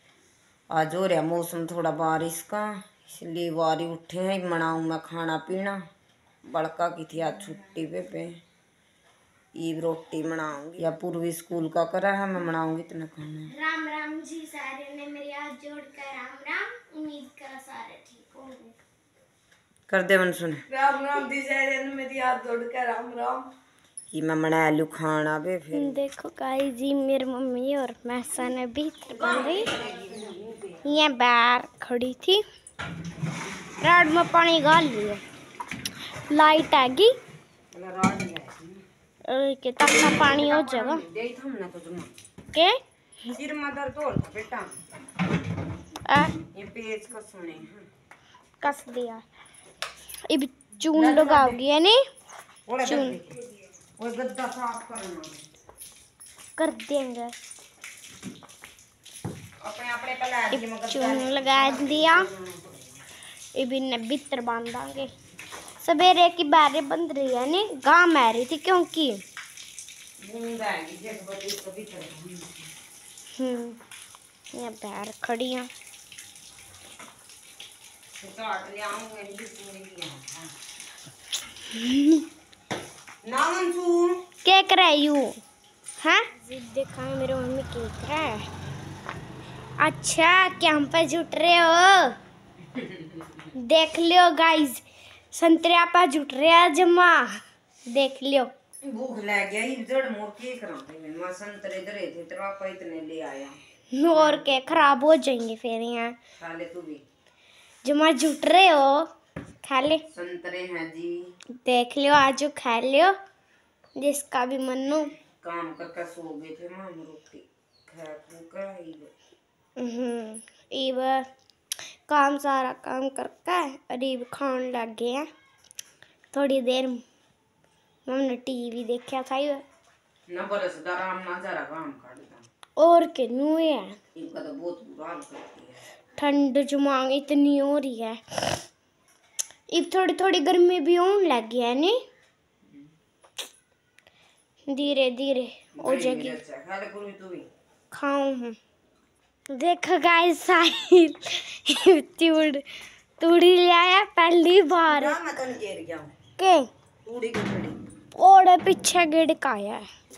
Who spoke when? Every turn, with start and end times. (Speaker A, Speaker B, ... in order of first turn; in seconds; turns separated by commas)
Speaker A: 0.7-5.8, Speaker A: 6.5-8.4, Speaker A: 9.6-13.5, Speaker B: 13.5-18.8, Speaker A: 19.9-20.6, Speaker C: 20.7-23.5, Speaker A: 24.1-26.0, Speaker B: 25.7-29.7, Speaker A: 29.1-30.9, Speaker B: 30.8-32.4, Speaker B: 33.8-35.2, Speaker B: 36.3-37.1, Speaker A: 37.7-38.8, Speaker B: 39.3-41.0, Speaker A: 40.0-42.1, Speaker B: 42.5-42.8, Speaker A: 43.3-44.7, Speaker B: 46.0-46.4, Speaker A: 46.5-47.9, Speaker B: 48.6-49.2, Speaker B: 50.3-52.0, Speaker A: 50.9-51.6, Speaker A: 52.7-53.4, Speaker B: 52.8-53.2, Speaker A: 54.0-55.4, Speaker B: 56.6-57.4, Speaker A: 59.6-63.0, Speaker B: 60.5-62.3, Speaker B: 63.5-65.1, Speaker B: 65.8-69.2, Speaker A: 70.2-72.7, Speaker B: 73.3-73.8, Speaker B: 74.5-75.7, Speaker A: 78.2-80.5, Speaker B: 81.7-82.2, Speaker A: 83.2-84.2, Speaker B: 84.4-85.3, Speaker B: 86.0-88.5, Speaker B: 89.8-92.2, Speaker A: 92.7-93.4, Speaker B: 93.6-97.4, Speaker B: 97.9-98.5, Speaker A: 98.8-105.0, Speaker B: 103.9-106.2, Speaker A: 106.4-107.0, Speaker B: 107.8-109.1, Speaker B: 109.6-110.0, Speaker A: 110.1-111.3, Speaker B: 111.6-113.1, Speaker B: 114.0-115.1, Speaker A: 115.2-119.1, Speaker B: 119.8-121.3, Speaker B: 122.1-125.3, Speaker B: 126.3-127.0, Speaker B: 128.1-129.6, Speaker A: 130.3-132.5, Speaker B: 132.8-134.0, Speaker A: 134.1-135.8, Speaker B: 136.2-138.6, Speaker B: 139.7-142.0, Speaker B: 144.7-146.4, Speaker A: 145.8-147.5, Speaker B: 147.9-148.6, Speaker B: 149.5-152.7, Speaker B: 153.2-155.2, Speaker A: 154.9-156.1, Speaker B: 156.4-156.7, Speaker A: 157.0-157.8, Speaker B: 158.2-159.9